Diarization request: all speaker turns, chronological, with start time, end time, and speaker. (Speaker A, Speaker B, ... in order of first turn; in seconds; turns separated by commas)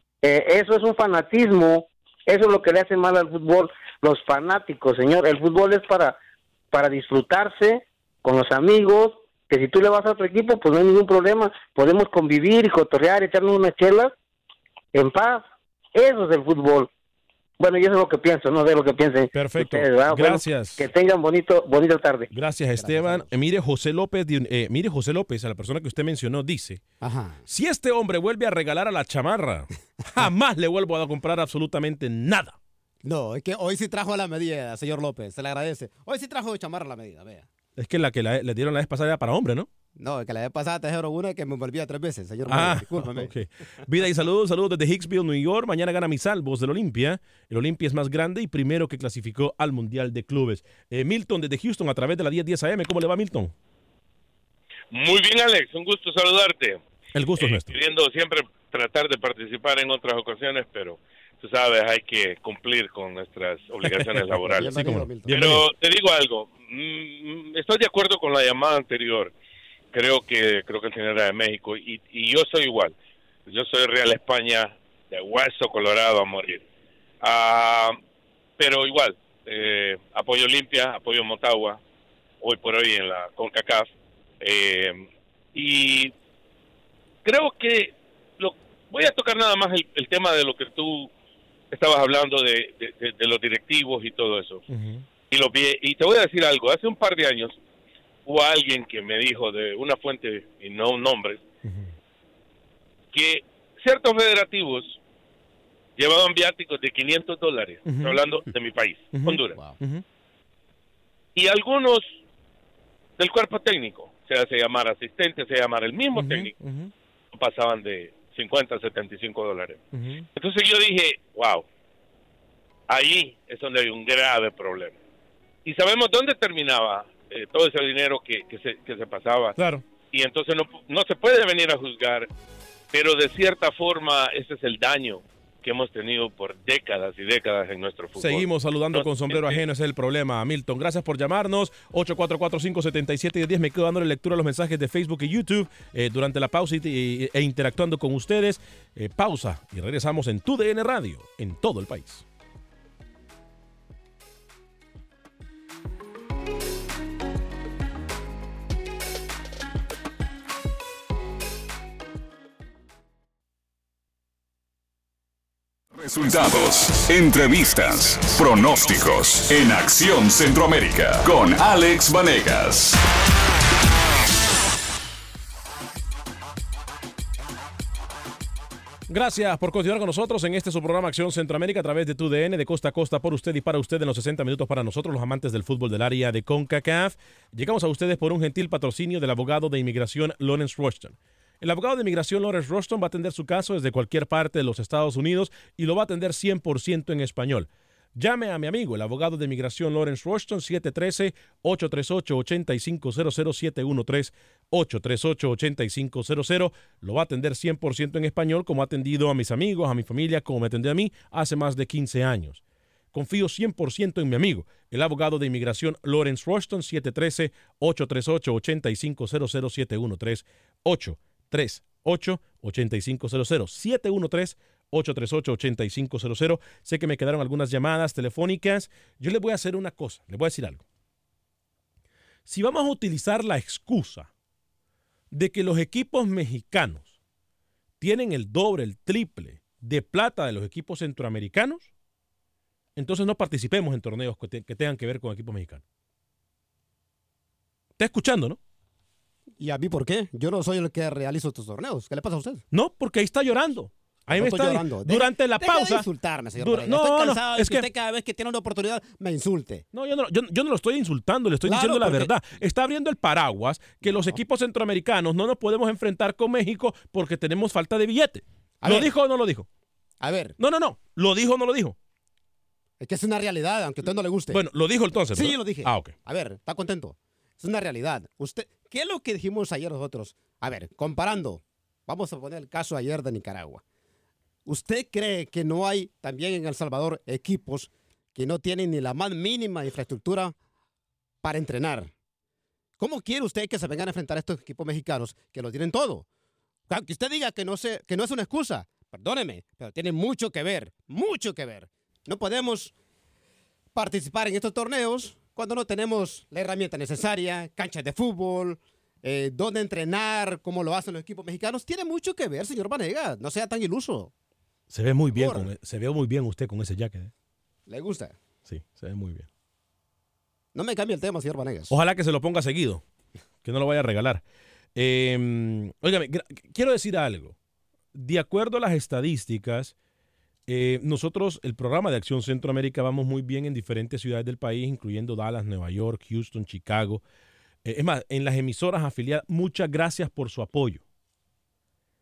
Speaker A: 0.2-6.2, Speaker A: 6.7-14.1, Speaker A: 14.9-16.9, Speaker A: 17.6-22.3, Speaker B: 19.3-20.8, Speaker B: 22.3-26.8, Speaker C: 22.7-23.3, Speaker C: 27.0-27.4, Speaker B: 27.5-32.5, Speaker C: 33.0-37.5, Speaker B: 37.8-39.7, Speaker C: 40.0-43.3, Speaker B: 42.5-53.5, Speaker D: 54.9-56.8, Speaker B: 57.1-57.8, Speaker D: 57.4-69.3, Speaker B: 63.8-65.7, Speaker C: 64.5-65.4, Speaker D: 69.9-72.9, Speaker D: 73.5-76.6, Speaker D: 77.2-78.0, Speaker D: 78.6-81.8, Speaker D: 82.4-83.9, Speaker D: 84.4-86.1, Speaker D: 87.2-91.1, Speaker D: 91.7-94.6, Speaker B: 94.7-95.0, Speaker D: 95.3-97.6, Speaker D: 98.2-101.4, Speaker B: 101.6-101.9, Speaker D: 103.1-105.0, Speaker D: 106.0-109.6, Speaker B: 107.8-108.2, Speaker B: 109.1-110.0, Speaker D: 111.3-112.1, Speaker D: 113.2-116.5, Speaker B: 116.1-116.9, Speaker D: 117.3-119.8, Speaker B: 119.9-120.2, Speaker D: 120.3-121.6, Speaker D: 122.9-124.9, Speaker D: 125.6-129.6, Speaker B: 129.6-129.8, Speaker D: 130.1-132.3, Speaker D: 132.9-139.6, Speaker B: 138.2-152.2, Speaker E: 166.0-173.0, Speaker B: 179.1-212.6, Speaker B: 213.1-230.8, Speaker B: 232.5-234.3, Speaker B: 235.3-237.1, Speaker B: 238.0-241.9, Speaker B: 242.9-245.8, Speaker B: 248.0-248.6, Speaker C: 249.6-252.6, Speaker B: 252.7-257.9, Speaker C: 254.3-259.8, Speaker B: 259.9-269.7, Speaker C: 261.6-262.3, Speaker C: 264.0-264.4, Speaker C: 268.8-269.1, Speaker C: 270.2-270.6, Speaker B: 270.6-272.0, Speaker C: 273.0-274.6, Speaker B: 274.5-276.1, Speaker C: 275.3-283.8, Speaker C: 284.6-290.5, Speaker C: 291.4-292.1, Speaker C: 293.0-296.2, Speaker C: 296.9-302.9, Speaker C: 303.9-314.3, Speaker B: 314.9-317.3, Speaker C: 315.3-315.7, Speaker C: 317.9-318.4, Speaker B: 318.7-319.5, Speaker C: 320.7-322.0, Speaker B: 321.9-323.0, Speaker B: 323.6-324.4, Speaker B: 324.9-327.5, Speaker B: 328.1-329.9, Speaker B: 330.7-337.2, Speaker B: 337.8-341.0